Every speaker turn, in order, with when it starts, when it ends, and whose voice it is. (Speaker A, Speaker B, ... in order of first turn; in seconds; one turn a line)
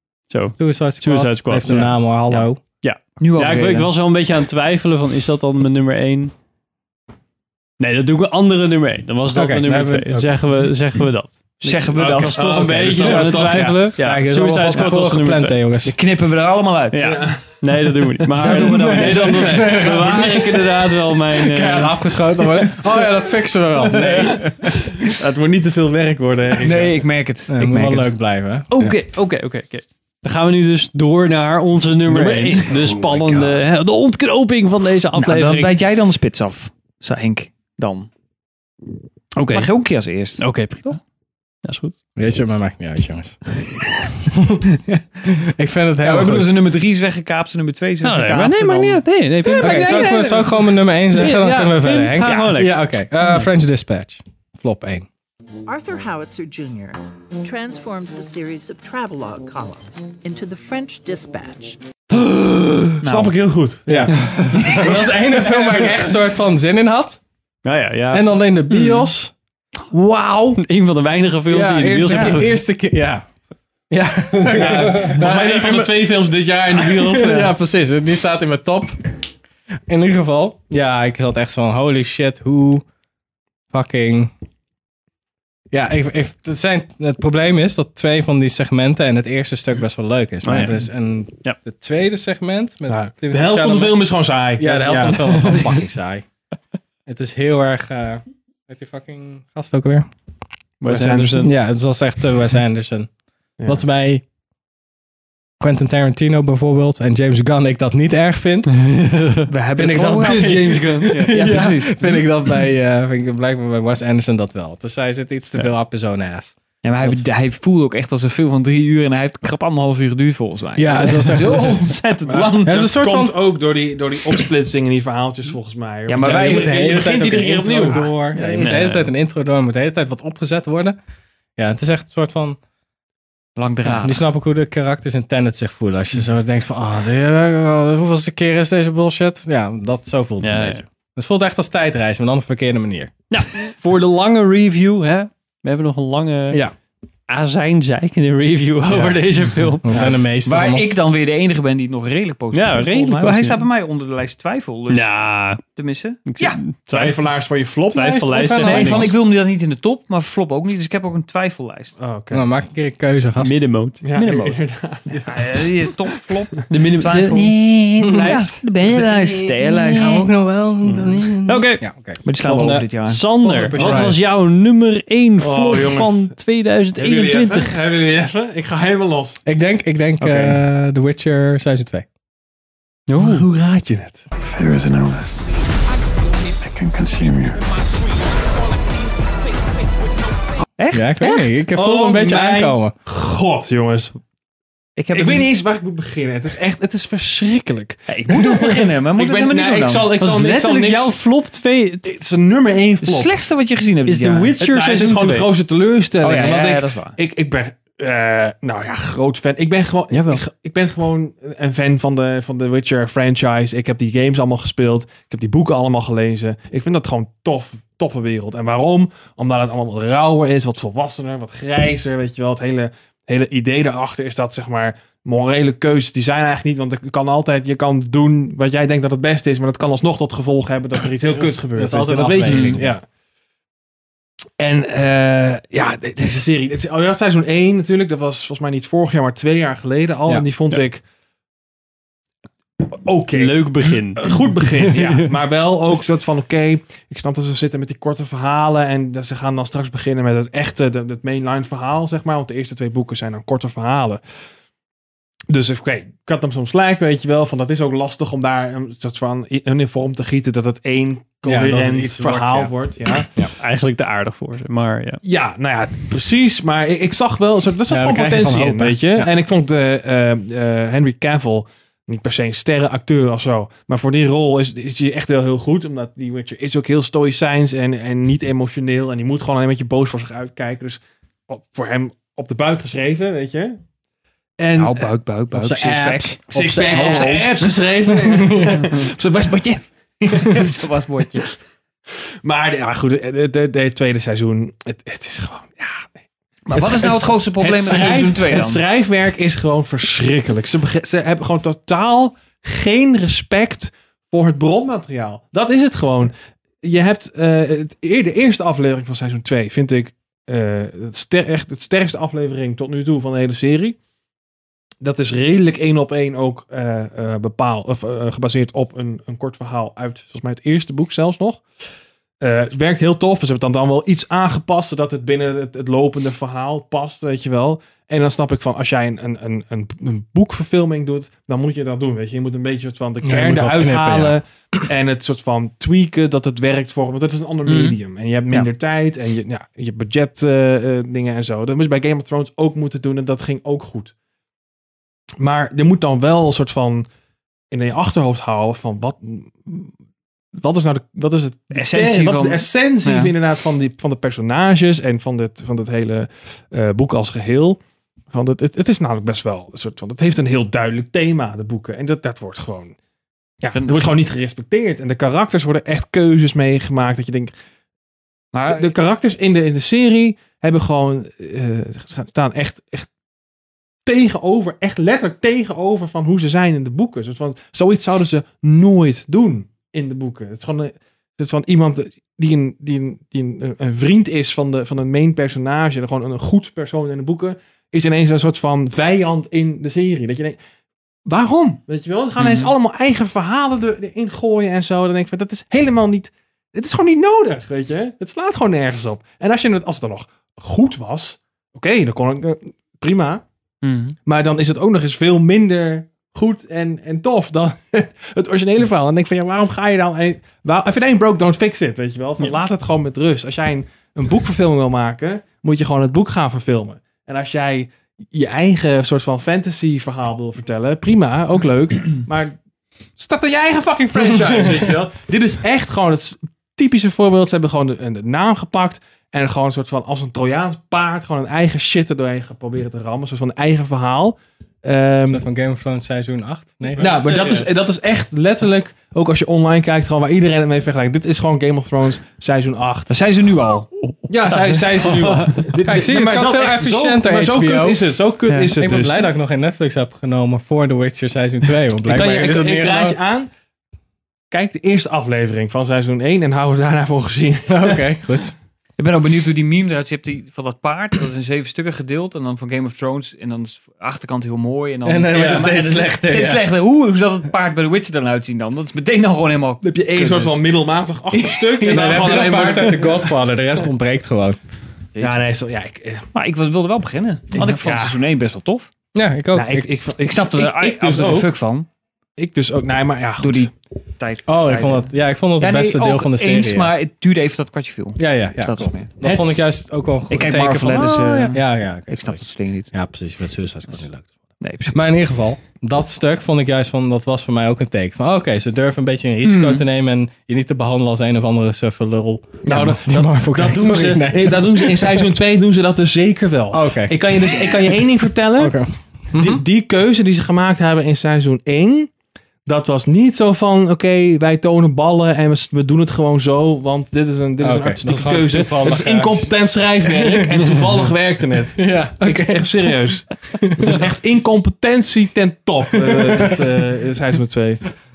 Speaker A: 0.3-1.9
Speaker B: 0.6-2.6
Speaker C: 1.7-2.5
Speaker A: 2.8-6.3
Speaker C: 3.2-3.9
Speaker A: 7.8-15.6
Speaker B: 9.3-10.3
Speaker C: 11.6-13.6
Speaker D: 11.9-13.9
Speaker B: 14.0-15.9
Speaker C: 15.8-17.3
Speaker A: 16.9-22.1
Speaker D: 17.0-17.6
Speaker B: 18.4-24.7
Speaker C: 18.4-19.2
Speaker A: 24.0-24.4
Speaker D: 25.1-27.0
Speaker C: 26.6-28.1
Speaker B: 27.5-29.0
Speaker A: 28.7-35.8
Speaker C: 32.1-32.6
Speaker D: 32.5-33.5
Speaker C: 35.1-38.1
Speaker A: 39.4-39.7
Speaker C: 39.5-41.0
Speaker A: 40.4-41.0
Speaker A: 41.6-41.9
Speaker B: 42.1-43.4
Speaker B: 44.3-44.6
Speaker B: 45.2-46.6
Speaker C: 46.0-50.3
Speaker A: 48.0-50.4
Speaker B: 49.6-55.0
Speaker A: 51.1-52.7
Speaker C: 52.2-52.5
Speaker E: 55.6-61.8
Speaker A: 62.2-62.9
Speaker C: 63.0-63.3
Speaker D: 63.0-64.3
Speaker B: 63.9-67.2
Speaker A: 64.2-64.5
Speaker A: 67.6-69.1
Speaker B: 68.1-69.3
Speaker A: 70.5-72.5
Speaker B: 71.5-73.2
Speaker C: 72.0-72.3
Speaker B: 73.9-76.2
Speaker D: 74.5-77.5
Speaker B: 76.7-79.0
Speaker B: 79.9-82.8
Speaker B: 83.7-84.3
Speaker B: 85.7-96.2
Speaker A: 90.4-90.9
Speaker D: 92.9-95.7
Speaker B: 97.0-100.1
Speaker A: 100.8-101.5
Speaker D: 100.8-101.5
Speaker B: 101.4-103.1
Speaker D: 103.6-103.8
Speaker B: 103.6-104.2
Speaker B: 105.6-108.8
Speaker A: 108.7-109.5
Speaker C: 109.5-112.2
Speaker B: 109.8-117.2
Speaker A: 110.2-111.7
Speaker C: 116.8-122.8
Speaker B: 120.8-121.9
Speaker D: 122.2-128.6
Speaker B: 122.6-123.4
Speaker C: 126.1-127.3
Speaker B: 126.2-131.0
Speaker A: 128.5-129.1
Speaker B: 131.6-132.6
Speaker C: 133.6-134.3
Speaker B: 133.9-143.1
Speaker A: 140.4-140.8
Speaker A: 143.3-146.6
Speaker A: 147.3-150.0
Speaker B: 149.8-151.0
Speaker C: 150.4-156.6
Speaker A: 152.5-153.7
Speaker A: 154.9-155.6
Speaker A: 156.3-157.2
Speaker D: 156.9-159.1
Speaker A: 157.9-159.1
Speaker B: 158.3-159.0
Speaker C: 158.6-162.0
Speaker D: 162.0-162.4
Speaker B: 162.3-163.6
Speaker A: 163.4-164.3
Speaker D: 164.0-165.4
Speaker C: 164.2-164.5
Speaker C: 165.2-170.2
Speaker A: 166.7-168.6
Speaker B: 168.1-168.6
Speaker B: 169.9-174.2
Speaker A: 170.9-171.8
Speaker C: 172.2-173.2
Speaker A: 173.1-177.8
Speaker D: 173.7-174.1
Speaker D: 175.4-176.3
Speaker D: 176.9-179.4
Speaker B: 179.4-182.1
Speaker A: 183.1-183.4
Speaker D: 183.2-184.2
Speaker F: 184.5-185.5
Speaker F: 186.5-187.6
Speaker C: 190.8-191.6
Speaker B: 190.9-192.9
Speaker D: 191.7-194.2
Speaker C: 194.9-195.5
Speaker D: 195.1-201.2
Speaker C: 198.1-200.2
Speaker A: 200.2-202.0
Speaker D: 202.0-203.3
Speaker C: 203.0-204.5
Speaker A: 204.1-205.5
Speaker D: 204.6-233.0
Speaker C: 206.2-207.2
Speaker B: 231.3-232.9
Speaker C: 232.4-232.8
Speaker D: 234.6-241.0
Speaker D: 242.9-254.2
Speaker A: 243.3-245.1
Speaker D: 255.5-263.3
Speaker B: 261.4-263.5
Speaker A: 263.6-265.2
Speaker D: 265.2-283.8
Speaker B: 267.9-269.3
Speaker D: 284.6-285.1
Speaker C: 284.8-287.7
Speaker B: 285.5-288.8
Speaker D: 286.5-290.7
Speaker C: 290.4-291.5
Speaker D: 292.4-296.1
Speaker C: 296.7-298.8
Speaker D: 296.7-314.0
Speaker D: 315.0-321.6
Speaker D: 322.4-344.1
Speaker B: 333.2-334.8
Speaker C: 337.7-337.9
Speaker D: 345.4-347.1
Speaker D: 347.7-349.9
Speaker D: 350.6-362.9
Speaker C: 351.7-353.3
Speaker D: 363.6-367.5
Speaker C: 363.7-364.1
Speaker C: 368.5-368.9
Speaker D: 368.7-373.1
Speaker D: 374.1-390.6
Speaker D: 391.2-403.4
Speaker C: 392.4-392.7
Speaker C: 403.8-404.2
Speaker D: 404.2-422.5
Speaker D: 423.2-435.4
Speaker B: 435.3-437.7
Speaker D: 437.0-443.1
Speaker C: 443.1-443.9
Speaker D: 444.3-449.2
Speaker C: 444.4-444.9
Speaker B: 445.7-453.2
Speaker D: 452.0-453.5
Speaker D: 454.5-458.0
Speaker B: 457.7-458.5
Speaker C: 459.0-470.7
Speaker B: 465.0-466.6
Speaker D: 469.8-473.3
Speaker C: 471.3-472.5
Speaker B: 471.8-474.6
Speaker C: 475.1-475.4
Speaker D: 475.2-476.2
Speaker C: 476.3-478.9
Speaker D: 477.5-478.2
Speaker B: 479.1-479.9
Speaker D: 479.5-481.5
Speaker C: 480.2-481.9
Speaker D: 482.4-483.7
Speaker C: 483.4-489.1
Speaker B: 484.4-486.9
Speaker B: 488.2-505.3
Speaker D: 489.2-489.6
Speaker C: 490.3-492.9
Speaker C: 494.6-495.1
Speaker C: 499.4-499.8
Speaker D: 502.6-508.7
Speaker B: 506.7-507.7
Speaker B: 508.6-509.6
Speaker D: 509.3-512.1
Speaker D: 512.6-527.8
Speaker B: 517.6-520.9
Speaker B: 521.8-523.0
Speaker B: 523.6-524.1
Speaker B: 525.9-526.5